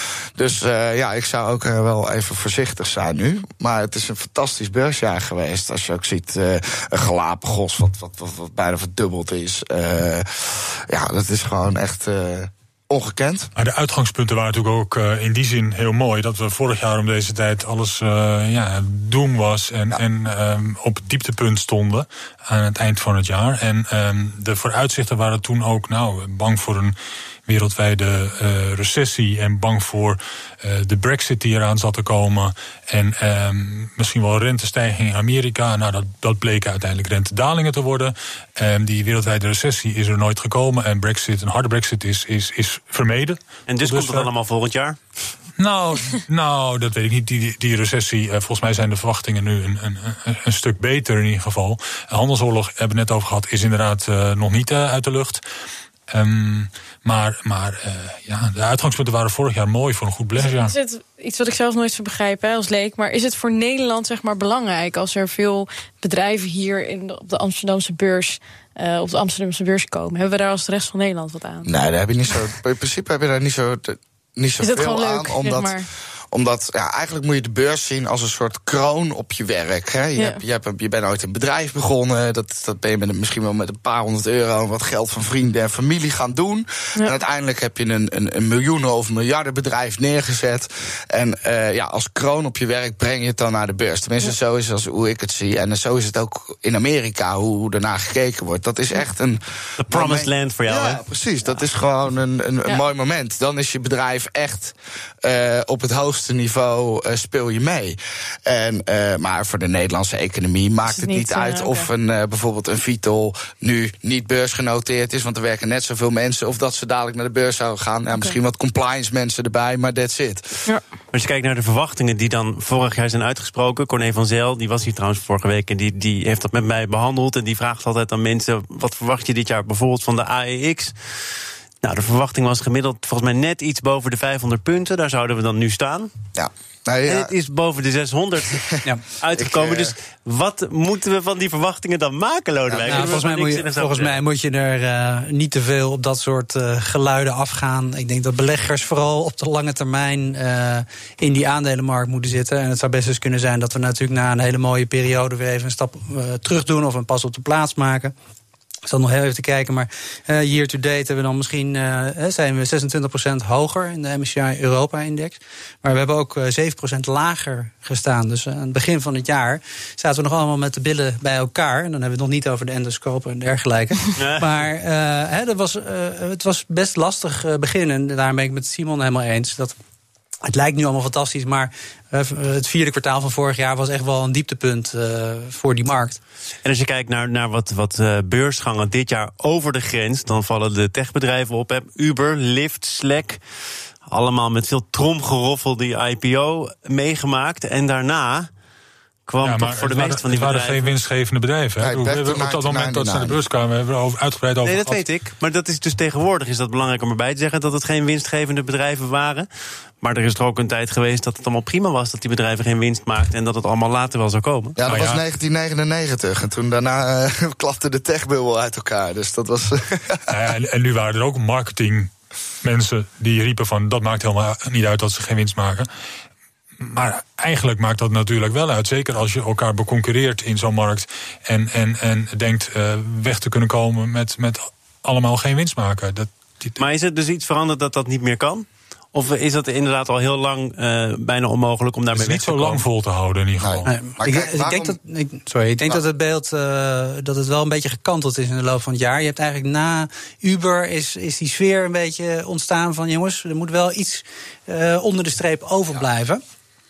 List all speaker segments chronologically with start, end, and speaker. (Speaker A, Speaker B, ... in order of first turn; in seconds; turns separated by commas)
Speaker A: 0.4-13.5, Speaker B: 13.6-44.3, Speaker C: 43.7-45.0, Speaker B: 45.6-55.4, Speaker B: 56.1-60.7, Speaker D: 60.4-71.7, Speaker A: 71.7-75.8, Speaker D: 74.6-75.9, Speaker A: 76.3-120.6, Speaker C: 99.8-101.0, Speaker D: 110.9-111.9, Speaker C: 121.1-130.9, Speaker C: 131.8-136.1, Speaker A: 136.3-137.3, Speaker C: 137.1-144.2, Speaker A: 139.3-139.9, Speaker A: 142.7-143.2, Speaker E: 142.9-158.1, Speaker E: 158.9-179.8, Speaker C: 174.2-174.5, Speaker E: 180.5-186.2, Speaker C: 186.7-193.4, Speaker C: 194.1-198.5, Speaker C: 199.3-200.9, Speaker B: 199.4-205.0, Speaker A: 201.8-203.4, Speaker C: 204.6-209.5, Speaker C: 210.0-214.8, Speaker A: 214.8-220.2, Speaker B: 214.9-215.2, Speaker B: 220.3-222.1, Speaker B: 222.6-225.9, Speaker B: 226.8-236.8, Speaker C: 236.8-242.8, Speaker B: 242.1-243.9, Speaker A: 243.6-245.0, Speaker E: 243.9-256.4